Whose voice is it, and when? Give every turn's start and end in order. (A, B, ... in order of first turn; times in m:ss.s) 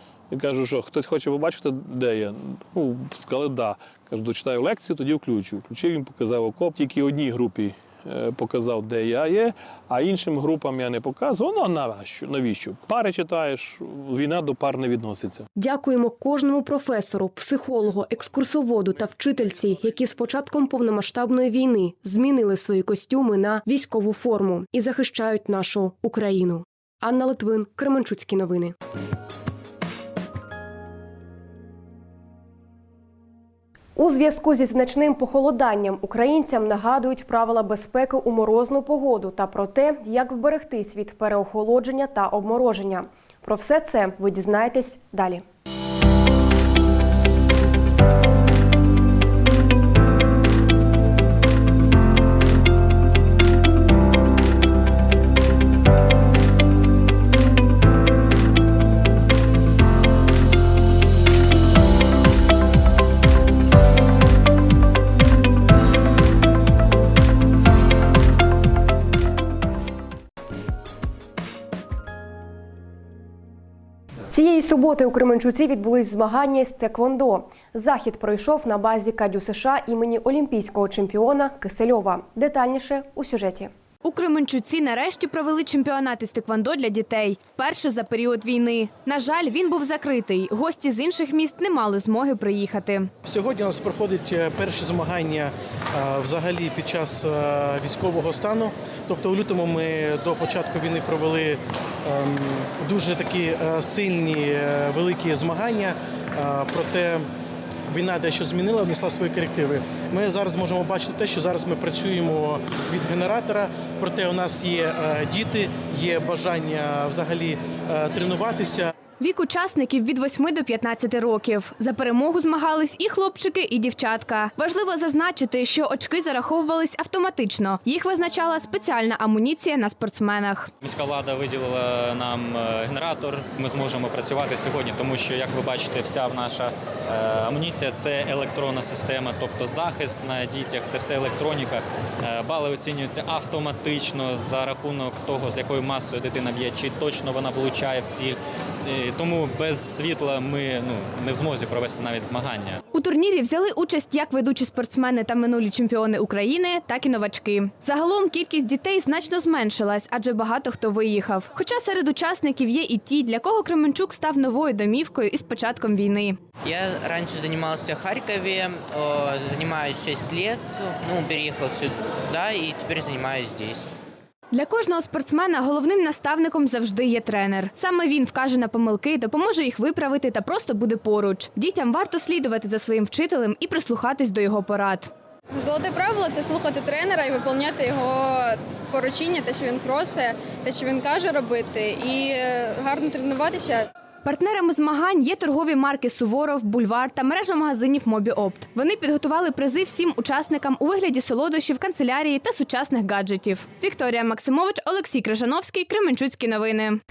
0:00.3-0:15.4 A
0:15.6-0:28.8 B
0:34.0-0:45.4 B
1:14.3-1:23.7 B
1:24.0-1:33.1 C
1:33.2-1:47.3 D
1:47.9-1:58.9 D
1:59.2-2:10.7 C
2:10.8-2:32.8 E
2:32.9-2:46.4 C
2:46.6-2:53.9 F
2:54.5-3:05.1 C
3:05.5-3:13.9 G
3:14.2-3:27.0 C